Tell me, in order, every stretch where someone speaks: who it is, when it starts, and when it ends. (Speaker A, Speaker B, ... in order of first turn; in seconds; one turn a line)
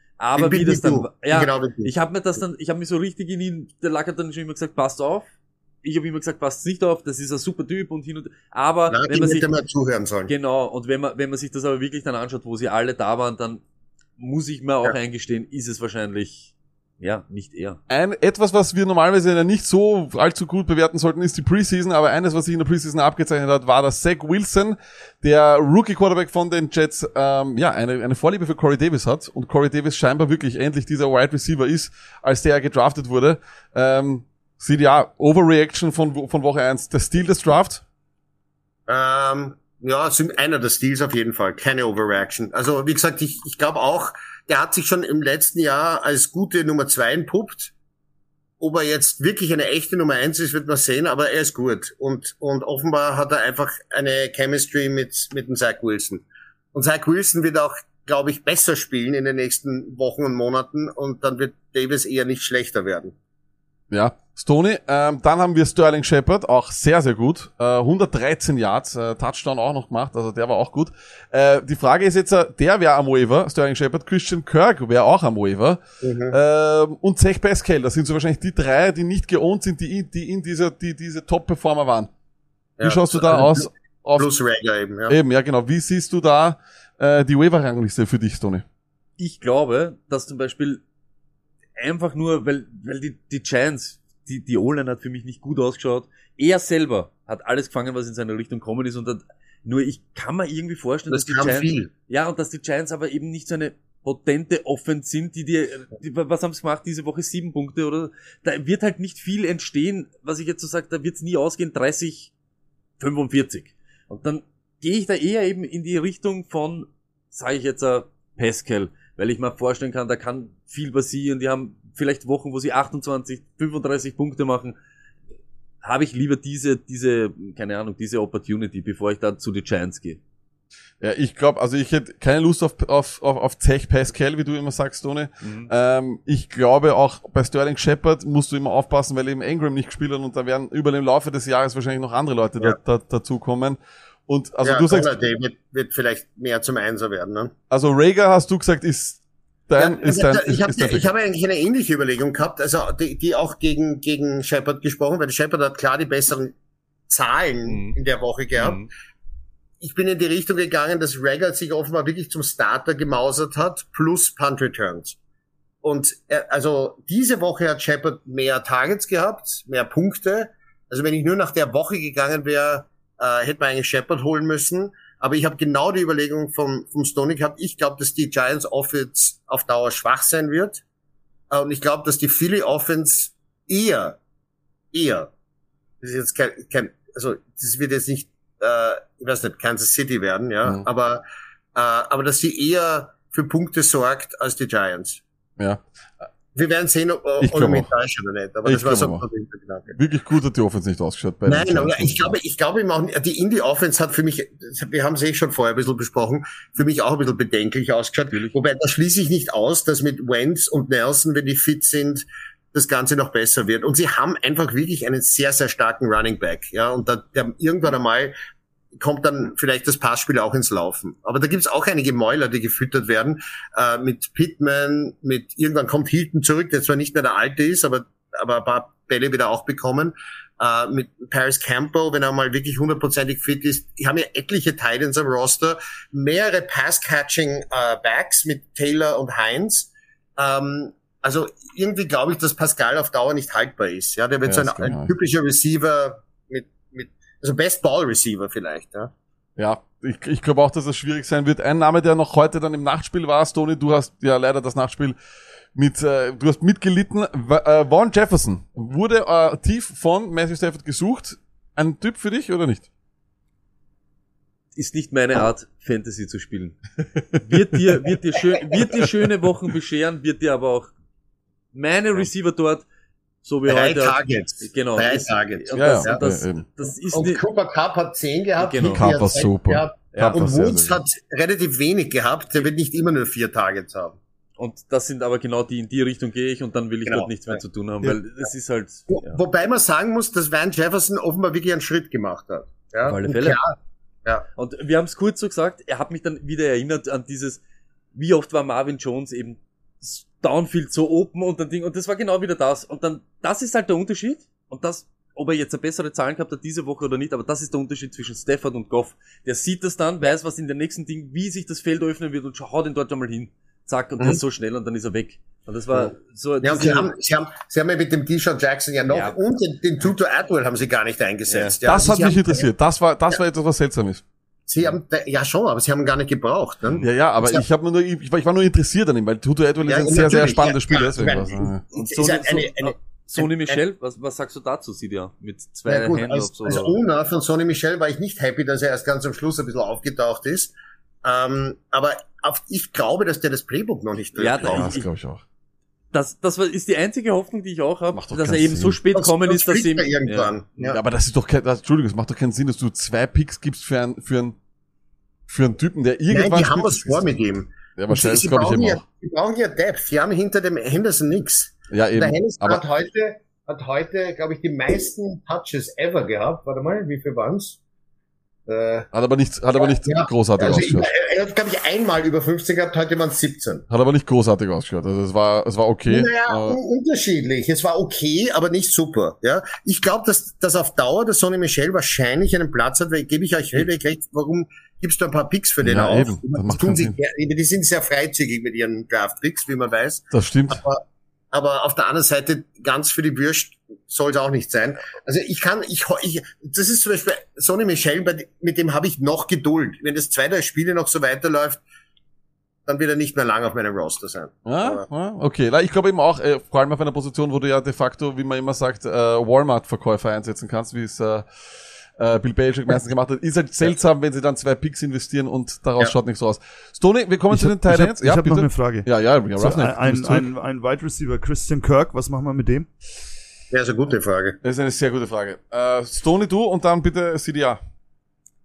Speaker A: 0.2-5.3
Speaker B: 0.4-1.9
Speaker A: 5.8-9.5
Speaker B: 8.9-10.3
Speaker A: 10.3-13.6
Speaker A: 14.2-17.8
Speaker C: 17.9-37.8
Speaker B: 38.9-47.7
Speaker B: 48.6-63.1
Speaker C: 63.9-82.1
Speaker B: 76.0-76.4
Speaker B: 82.8-85.2
Speaker C: 82.8-84.3
Speaker C: 85.1-88.7
Speaker A: 89.2-90.8
Speaker A: 91.8-112.3
Speaker B: 101.1-101.9
Speaker A: 113.0-124.8
Speaker A: 125.8-130.2
Speaker C: 131.0-145.1
Speaker A: 135.4-135.7
Speaker B: 144.6-147.5
Speaker C: 147.7-151.1
Speaker B: 149.8-156.5
Speaker B: 157.1-158.9
Speaker A: 157.7-157.9
Speaker A: 158.6-158.9
Speaker B: 159.8-165.2
Speaker B: 165.8-180.8
Speaker B: 181.5-184.2
Speaker B: 184.9-185.3
Speaker B: 186.0-191.2
Speaker B: 191.8-195.2
Speaker C: 195.6-196.2
Speaker B: 196.6-199.9
Speaker C: 197.4-197.9
Speaker C: 198.7-199.2
Speaker C: 200.0-202.3
Speaker B: 201.5-218.3
Speaker B: 219.0-249.1
Speaker C: 244.5-245.1
Speaker C: 249.6-255.2
Speaker C: 255.8-262.9
Speaker A: 264.8-266.8
Speaker C: 267.2-267.4
Speaker A: 267.4-270.9
Speaker A: 271.7-272.8
Speaker A: 273.4-277.4
Speaker B: 273.7-276.2
Speaker C: 275.8-276.6
Speaker B: 277.1-284.2
Speaker A: 278.6-279.1
Speaker C: 278.9-281.0
Speaker A: 284.6-289.4
Speaker B: 287.1-287.6
Speaker B: 289.1-293.7
Speaker A: 293.1-293.6
Speaker A: 294.6-297.6
Speaker A: 298.1-317.1
Speaker B: 316.6-322.7
Speaker A: 319.1-319.4
Speaker A: 321.5-321.8
Speaker C: 321.9-324.2
Speaker B: 324.7-327.7
Speaker C: 327.0-331.8
Speaker B: 329.8-333.8
Speaker A: 331.9-337.0
Speaker B: 335.9-344.9
Speaker A: 344.4-345.1
Speaker C: 344.6-345.4
Speaker A: 346.1-350.6
Speaker C: 348.1-349.0
Speaker B: 349.1-351.0
Speaker C: 350.9-354.6
Speaker C: 355.5-357.4
Speaker B: 356.3-367.8
Speaker C: 357.9-359.0
Speaker C: 361.9-362.8
Speaker B: 368.7-369.1
Speaker C: 369.1-371.1
Speaker B: 369.8-373.9
Speaker C: 373.9-376.8
Speaker B: 376.1-401.8
Speaker C: 385.8-387.2
Speaker C: 390.3-390.8
Speaker B: 402.9-405.1
Speaker C: 404.7-411.5
Speaker C: 412.2-420.5
Speaker D: 417.5-422.9
Speaker B: 423.7-424.6
Speaker C: 424.6-427.8